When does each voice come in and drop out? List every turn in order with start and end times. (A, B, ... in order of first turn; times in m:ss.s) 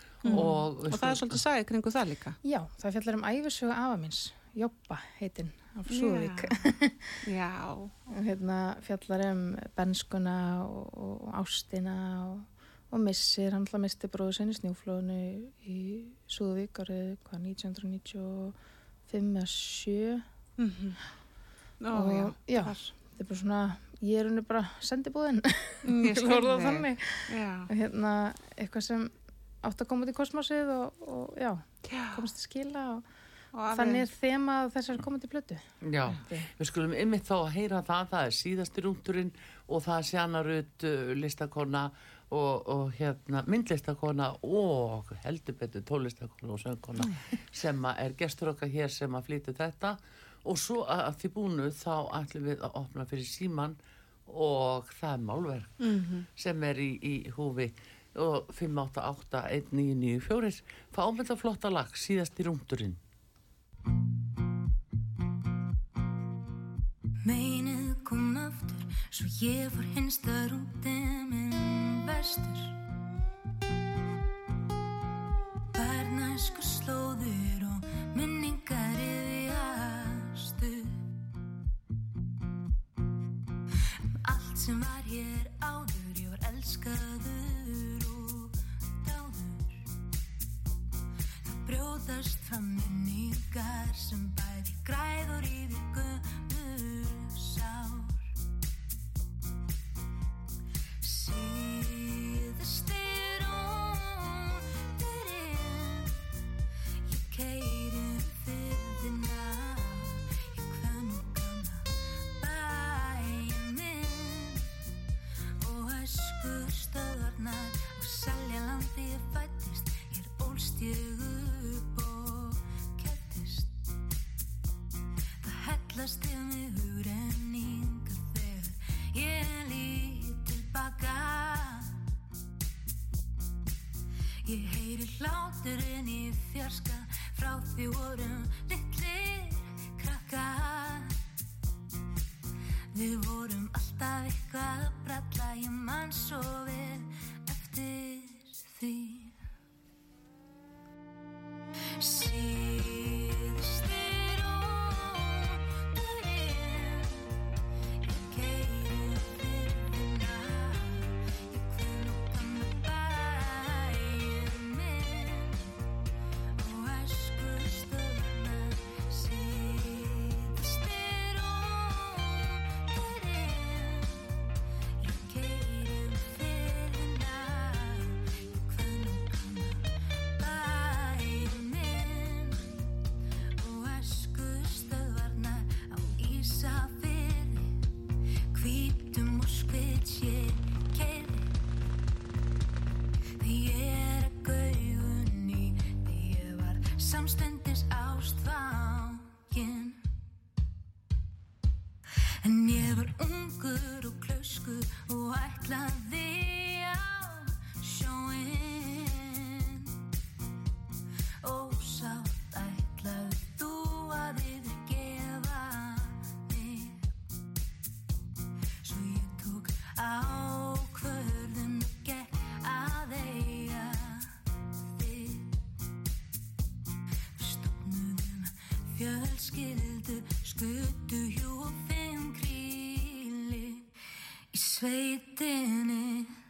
0:00.2-0:02.4 A
0:00.3-0:01.4 B
0:02.4-0:07.2 C
0:05.9-0:06.7 A
0:07.2-0:07.9 A
0:08.1-0:18.6 C
0:19.1-0:20.2 C
0:20.6-0:21.0 A
0:21.8-0:22.9 A
0:21.9-0:33.0 C
0:25.8-0:27.7 A
0:31.9-0:32.2 A
0:33.5-0:34.1 A
0:33.7-0:35.6 C
0:35.8-0:55.8 B
0:55.8-0:56.3 A
0:56.4-1:03.0 B
1:07.2-1:12.8 D
1:15.7-1:21.0 D
1:24.2-1:29.8 D
1:31.4-1:38.2 D
1:41.0-1:46.2 D
1:47.0-1:54.7 D
1:55.6-2:03.7 D
2:05.4-2:12.0 D
2:14.4-2:21.2 D
2:22.9-2:29.3 D
2:32.0-2:37.3 D
2:38.0-2:45.7 D
2:46.6-2:54.4 D
2:55.0-2:59.8 D
3:00.4-3:02.8 D
3:03.6-3:07.8 D
3:08.5-3:11.5 D
3:13.4-3:20.0 D
3:22.4-3:29.9 D
3:31.4-3:37.1 D
3:38.8-3:45.6 D
3:47.4-3:53.9 D
3:54.5-3:56.3 D